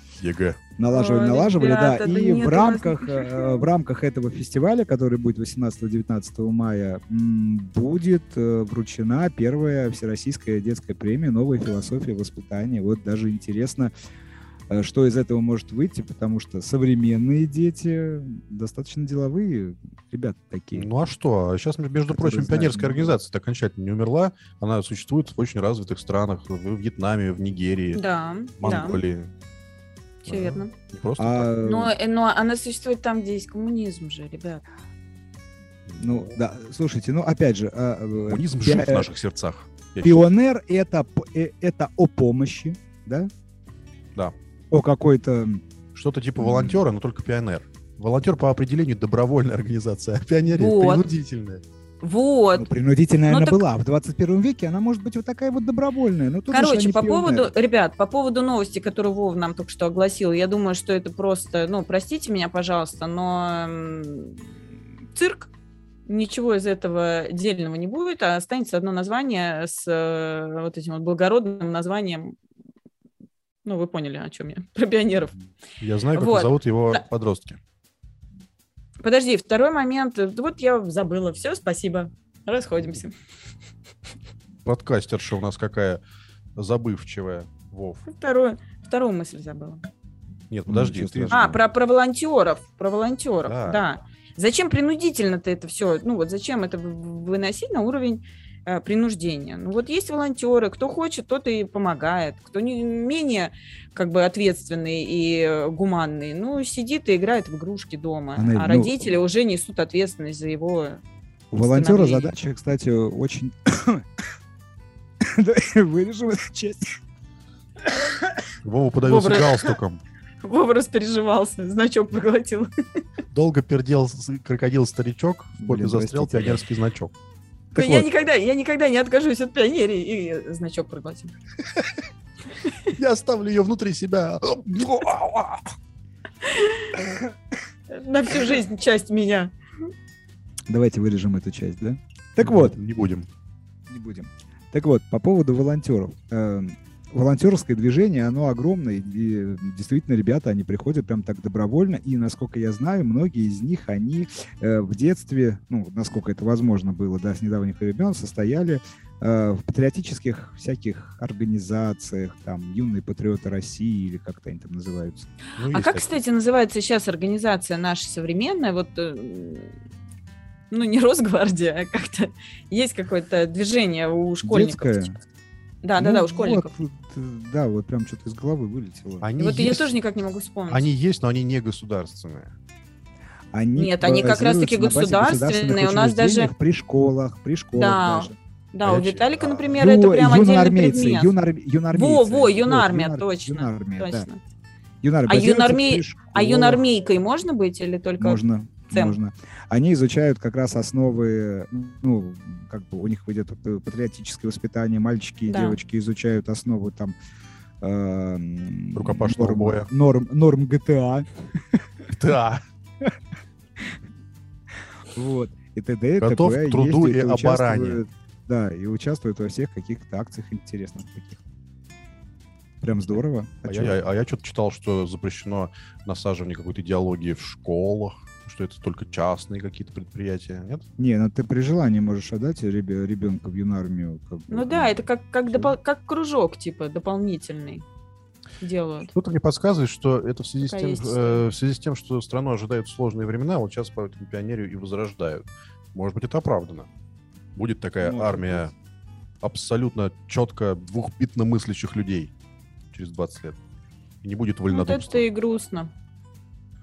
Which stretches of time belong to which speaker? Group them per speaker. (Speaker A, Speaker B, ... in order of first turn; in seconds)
Speaker A: 0.2-0.6, 20.7-28.0, 28.6-29.3, 30.2-31.5, 35.9-36.3, 38.3-40.2, 45.9-51.6, 75.8-77.6, 84.6-86.0, 86.5-88.0, 90.5-91.5, 93.5-93.8, 118.6-120.0, 123.3-127.1, 132.9-135.6, 142.4-143.3, 165.6-166.2, 179.2-179.9, 180.7-182.5, 188.8-189.8, 208.9-209.9, 212.1-212.6, 216.2-218.0, 223.7-230.8, 239.1-245.4, 245.9-246.9, 247.5-248.7, 249.4-252.3, 252.9-253.6, 254.2-255.3
Speaker B: 0.8-13.9, 14.7-20.9, 22.1-23.2, 31.2-31.9, 36.0-39.1, 40.0-43.3, 44.7-45.6, 46.4-46.8, 52.5-57.5, 90.7-91.6, 108.3-109.1, 111.5-114.1, 115.2-117.0, 125.6-126.6, 140.7-142.8, 143.9-165.3, 174.4-175.2, 176.0-179.3, 183.5-188.3, 189.8-194.3, 195.0-196.8, 198.2-207.1, 207.8-211.8, 215.1-221.4, 222.8-224.0, 231.0-235.0, 248.0-248.6
Speaker C: 0.9-3.6, 27.9-29.0, 30.2-30.7, 31.6-34.6, 50.5-51.0, 52.0-52.7, 53.3-53.6, 56.5-64.5, 65.1-65.5, 66.1-72.3, 73.6-75.3, 76.1-77.0, 79.0-83.1, 88.0-89.8, 91.3-111.0, 111.6-112.3, 119.0-119.7, 120.4-122.7, 127.7-131.3, 136.4-137.0, 137.9-139.5, 165.7-169.7, 170.7-175.2, 175.8-176.7, 179.4-180.8, 183.8-186.5, 187.8-191.3, 191.9-194.4, 195.3-198.4, 198.9-199.2, 205.5-205.8, 234.5-237.8, 238.6-239.1, 240.6-241.4, 254.7-255.9